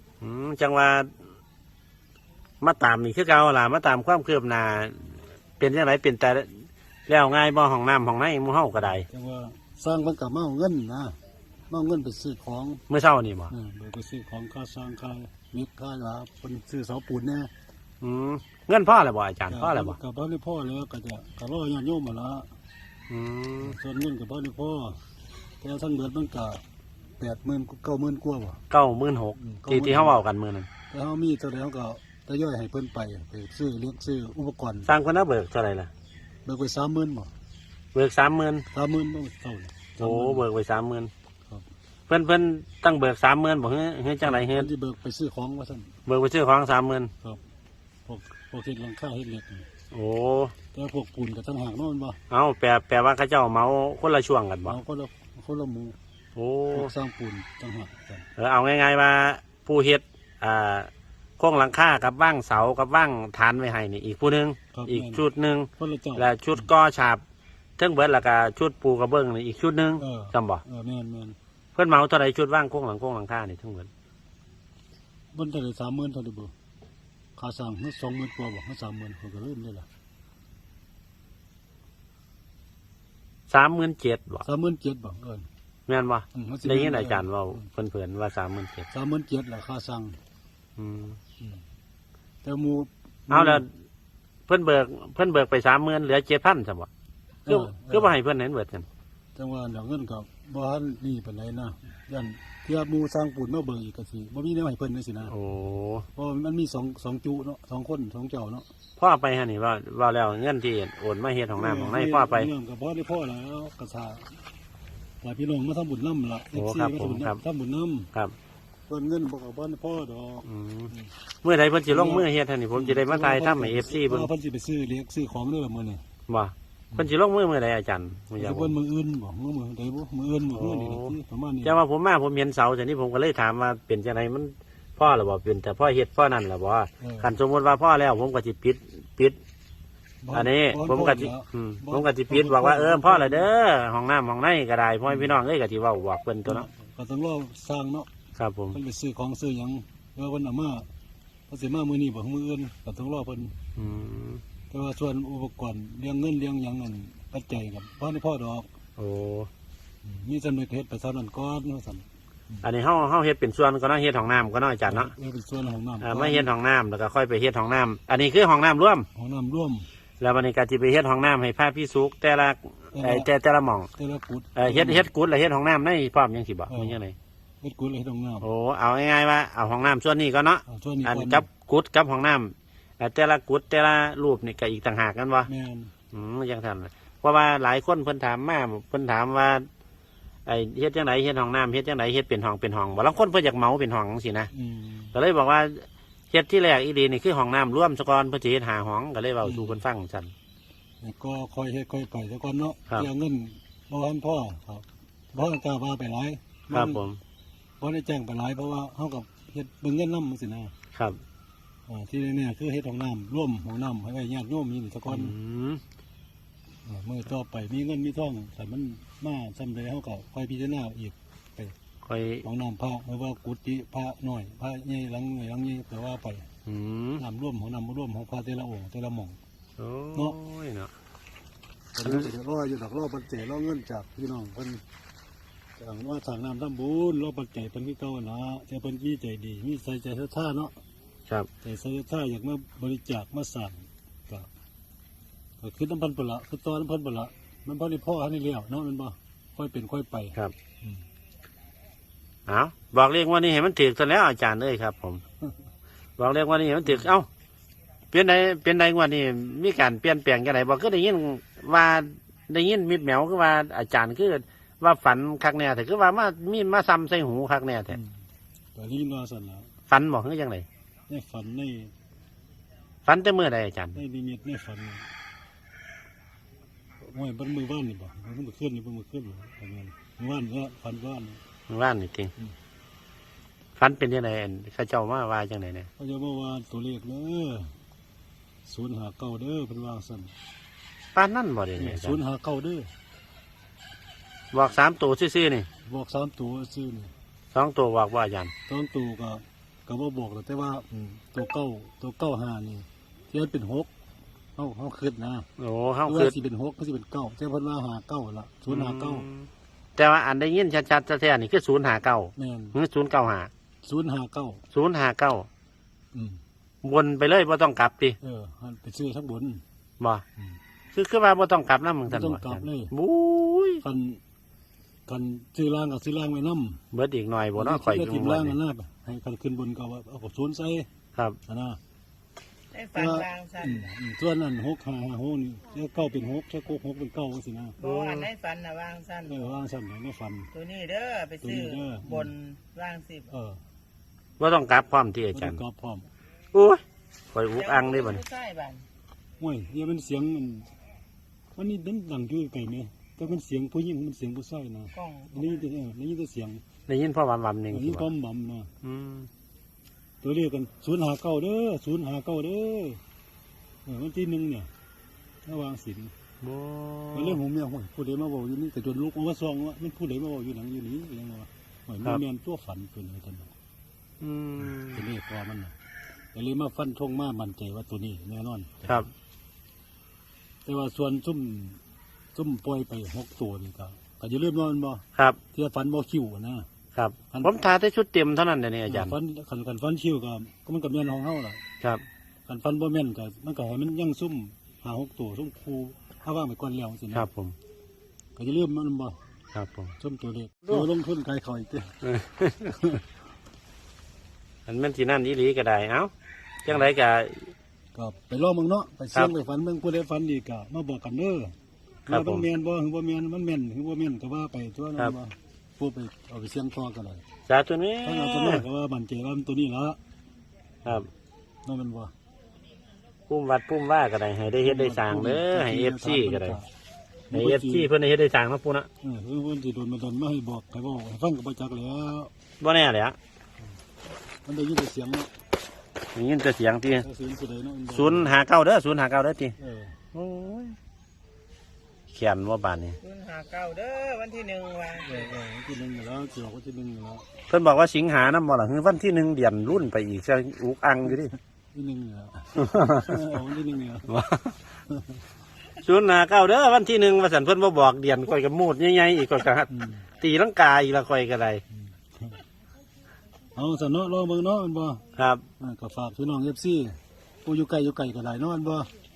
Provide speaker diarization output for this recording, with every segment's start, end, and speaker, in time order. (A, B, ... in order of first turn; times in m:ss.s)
0:00.2-0:01.1 A
0:02.6-0:09.1 A
0:09.0-0:11.2 B
0:11.7-0:12.8 B
0:12.9-0:13.5 A
0:13.5-0:17.5 B
0:18.0-0:20.0 A
0:19.5-0:22.5 B
0:23.1-0:23.8 A
0:23.6-0:25.0 B
0:25.6-0:26.6 B
0:27.2-0:28.6 B
0:28.7-0:30.7 A
0:29.4-0:30.2 B
0:30.9-0:34.9 B
0:34.9-0:35.9 A
0:36.4-0:37.3 B
0:37.9-0:38.7 A
0:38.7-0:40.4 B
0:40.0-0:41.1 A
0:42.1-0:44.7 A
0:44.2-0:45.9 B
0:46.1-0:47.1 A
0:48.1-0:49.7 B
0:49.9-0:50.6 A
0:50.7-0:52.2 B
0:52.3-0:54.8 A
0:54.6-0:56.0 B
0:56.4-0:56.9 A
0:56.7-0:58.3 B
0:58.4-1:07.2 A
1:04.7-1:05.2 B
1:05.8-1:06.7 B
1:07.8-1:10.6 A
1:10.0-1:11.4 B
1:11.8-1:13.9 A
1:15.3-1:16.5 B
1:17.4-1:19.9 B
1:23.5-1:24.4 A
1:24.4-1:25.5 B
1:25.9-1:28.9 A
1:26.3-1:27.6 B
1:28.9-1:30.2 B
1:30.8-1:31.2 A
1:32.4-1:33.6 B
1:33.3-1:33.7 A
1:34.5-1:36.9 A
1:37.5-1:38.1 B
1:37.5-1:38.9 A
1:39.4-1:45.3 B
1:45.3-1:46.1 A
1:46.2-1:48.7 B
1:49.0-1:52.5 A
1:51.5-1:54.4 B
1:55.2-1:58.1 B
1:56.5-1:57.4 A
1:58.9-2:01.1 B
2:00.4-2:04.3 A
2:01.9-2:06.0 B
2:06.3-2:08.8 A
2:08.4-2:11.8 B
2:10.5-2:19.4 A
2:17.0-2:17.3 B
2:20.2-2:23.5 B
2:20.3-2:26.7 A
2:25.1-2:25.4 B
2:26.5-2:28.1 B
2:28.4-2:28.8 A
2:28.7-2:30.9 B
2:31.5-2:33.6 B
2:33.8-2:34.4 A
2:34.7-2:38.7 B
2:39.0-2:39.5 A
2:40.0-2:42.7 B
2:42.6-2:45.1 A
2:44.9-2:46.5 B
2:46.0-2:49.1 A
2:49.2-2:49.9 B
2:50.2-2:53.9 A
2:52.9-2:53.3 B
2:54.0-2:55.1 B
2:54.6-2:57.2 A
2:56.7-2:57.0 B
2:57.6-2:58.5 B
2:58.4-3:05.5 A
3:00.7-3:01.5 B
3:05.5-3:05.9 B
3:06.1-3:09.7 A
3:10.5-3:14.5 A
3:14.5-3:15.2 B
3:15.1-3:20.3 A
3:19.4-3:19.8 B
3:21.0-3:27.1 B
3:26.7-3:27.2 A
3:27.8-3:30.7 B
3:30.9-3:31.2 A
3:31.9-3:35.4 B
3:35.1-3:35.8 A
3:36.8-3:41.8 B
3:42.0-3:42.5 A
3:42.4-3:46.5 B
3:46.7-3:47.2 A
3:47.2-3:49.4 B
3:49.8-3:50.9 A
3:51.9-3:54.8 B
3:55.8-4:00.8 B
4:01.6-4:04.5 B
4:05.6-4:11.0 B
4:12.5-4:15.2 A
4:16.2-4:17.3 A
4:18.1-4:28.0 A
4:27.9-4:28.2 B
4:28.8-4:29.7 B
4:29.9-4:30.7 A
4:31.1-4:31.9 B
4:33.1-4:34.0 A
4:33.9-4:35.1 B
4:37.0-4:41.4 B
4:41.7-4:42.3 A
4:43.8-4:45.9 A
4:46.0-4:47.7 B
4:48.7-4:50.3 B
4:51.1-4:52.2 A
4:51.8-4:52.9 B
4:54.5-4:55.7 A
4:55.8-4:57.1 B
4:57.5-4:58.5 A
4:58.7-5:03.9 B
5:04.6-5:05.5 B
5:05.6-5:06.4 A
5:06.1-5:09.3 B
5:08.7-5:13.5 A
5:12.4-5:12.8 B
5:13.8-5:14.6 B
5:14.7-5:15.5 A
5:16.1-5:16.4 B
5:16.8-5:18.2 A
5:18.2-5:19.6 B
5:20.0-5:20.2 A
5:20.9-5:23.8 A
5:22.1-5:22.9 B
5:23.8-5:24.2 B
5:25.1-5:26.8 B
5:26.9-5:28.6 A
5:27.6-5:30.9 B
5:31.5-5:31.8 B
5:32.7-5:33.9 C
5:32.9-5:37.8 B
5:37.8-5:39.4 C
5:37.8-5:38.3 A
5:39.2-5:40.5 B
5:40.5-5:43.3 C
5:41.4-5:42.3 B
5:43.3-5:43.6 B
5:44.4-5:45.6 A
5:45.3-5:46.1 B
5:46.5-5:48.2 A
5:47.6-5:48.9 C
5:49.4-5:50.7 B
5:51.6-5:56.6 B
5:55.0-5:55.4 C
5:56.9-5:58.1 A
5:57.7-5:58.7 B
5:58.8-5:59.3 A
6:00.2-6:03.0 B
6:03.9-6:04.7 B
6:05.4-6:06.1 B
6:06.4-6:07.4 A
6:07.1-6:13.5 B
6:14.2-6:15.1 A
6:14.6-6:15.7 B
6:16.3-6:19.1 B
6:20.7-6:21.8 B
6:22.3-6:26.7 B
6:27.0-6:29.2 A
6:27.3-6:27.6 B
6:28.9-6:31.6 B
6:32.5-6:37.3 B
6:37.1-6:37.6 A
6:38.4-6:39.2 B
6:39.5-6:40.0 A
6:40.0-6:42.0 B
6:42.0-6:42.7 A
6:42.7-6:43.0 B
6:44.7-6:46.1 A
6:46.6-6:47.5 A
6:47.9-6:51.5 B
6:52.1-6:57.2 B
6:52.1-6:52.5 A
6:57.5-6:58.6 A
6:58.0-7:00.0 B
7:01.6-7:02.1 B
7:03.3-7:06.6 A
7:04.6-7:06.7 B
7:07.3-7:07.9 B
7:07.3-7:08.9 A
7:09.0-7:12.3 B
7:12.6-7:13.2 A
7:14.4-7:15.3 B
7:16.1-7:17.1 A
7:17.0-7:18.4 B
7:17.9-7:19.6 A
7:19.6-7:20.0 B
7:20.1-7:20.8 A
7:22.1-7:23.0 A
7:23.0-7:25.3 C
7:25.0-7:27.3 B
7:27.5-7:31.4 A
7:31.7-7:34.1 B
7:32.6-7:33.3 A
7:34.1-7:34.6 A
7:34.9-7:35.2 B
7:35.8-7:41.6 A
7:39.7-7:40.0 B
7:41.8-7:42.4 B
7:43.6-7:45.0 B
7:45.2-7:45.4 A
7:45.6-7:48.9 B